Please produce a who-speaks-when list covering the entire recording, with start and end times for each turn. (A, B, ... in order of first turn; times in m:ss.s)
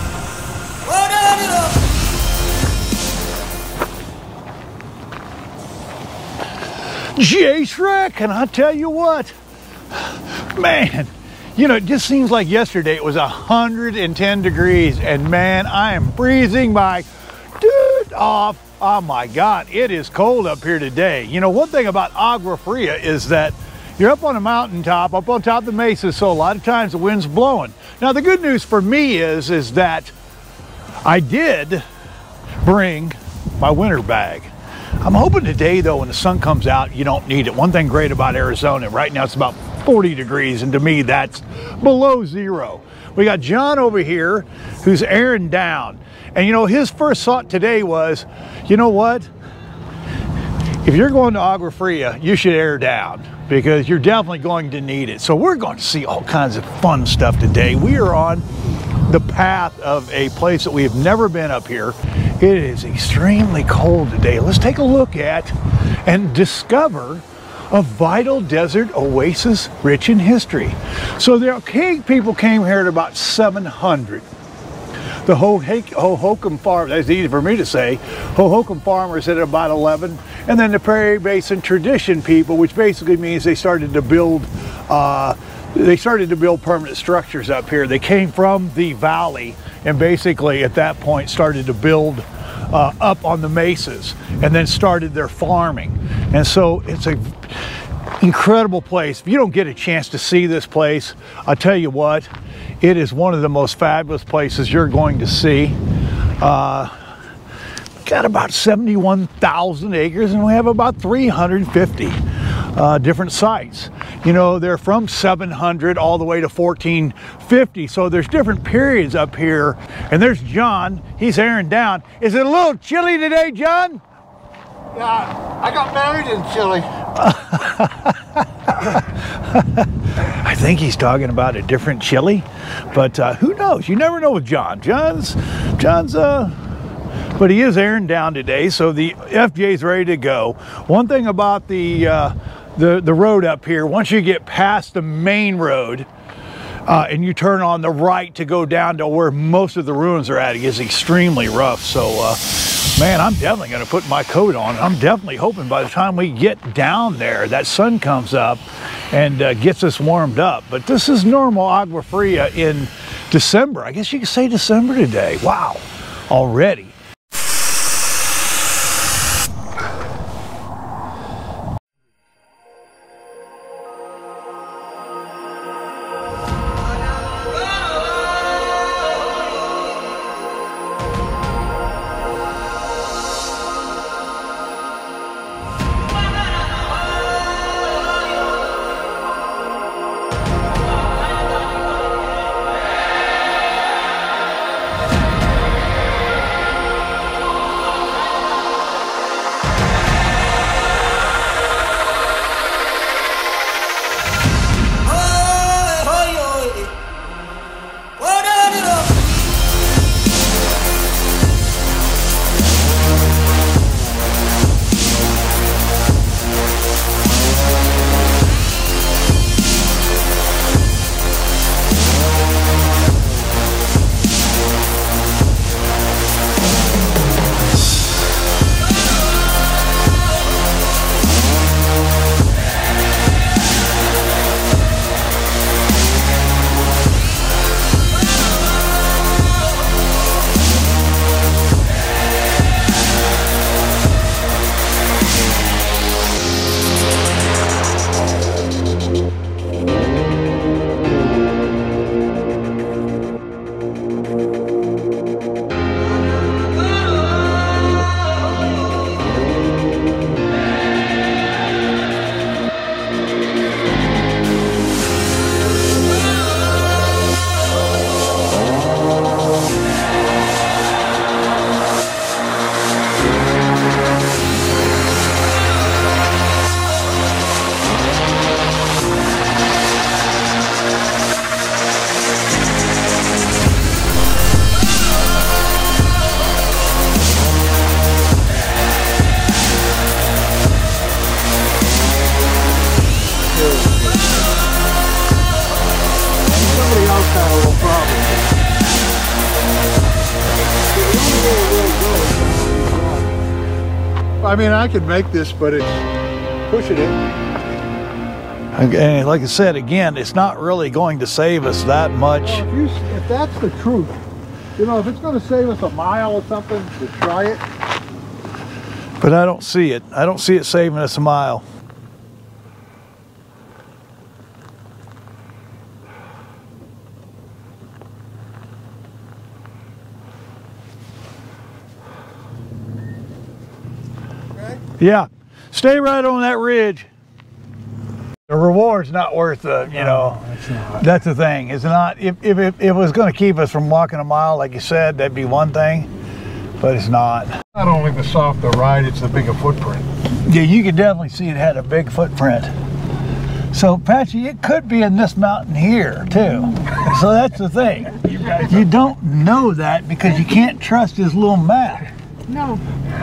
0:00.8-0:02.0 A
0:06.9-0:09.4 B
0:09.9-0:17.1 B
0:17.6-0:30.1 B
0:31.0-0:31.9 B
0:32.6-0:49.3 B
0:50.8-0:58.5 B
0:59.0-1:14.3 B
1:15.3-1:42.3 B
1:42.8-1:45.8 B
1:46.4-1:46.9 B
1:48.0-2:04.0 B
2:04.9-2:06.9 C
2:07.2-2:08.2 B
2:08.8-2:16.6 B
2:17.4-2:26.1 B
2:26.9-2:47.0 B
3:25.0-3:27.0 A
3:28.2-3:29.4 A
4:53.5-4:54.3 C
4:56.5-4:58.6 C
5:00.7-5:03.4 C
5:04.4-5:06.1 C
5:06.7-5:07.2 C
5:08.8-5:12.6 B
5:12.4-5:14.2 C
5:14.8-5:17.6 C
5:19.2-5:21.6 B
5:35.0-5:37.1 B
5:38.5-5:40.4 B
5:40.0-5:41.0 C
5:41.0-5:46.1 B
5:46.8-5:47.6 B
5:47.8-5:50.1 C
5:50.4-5:52.7 B
5:53.7-6:02.1 B
6:02.5-6:02.8 A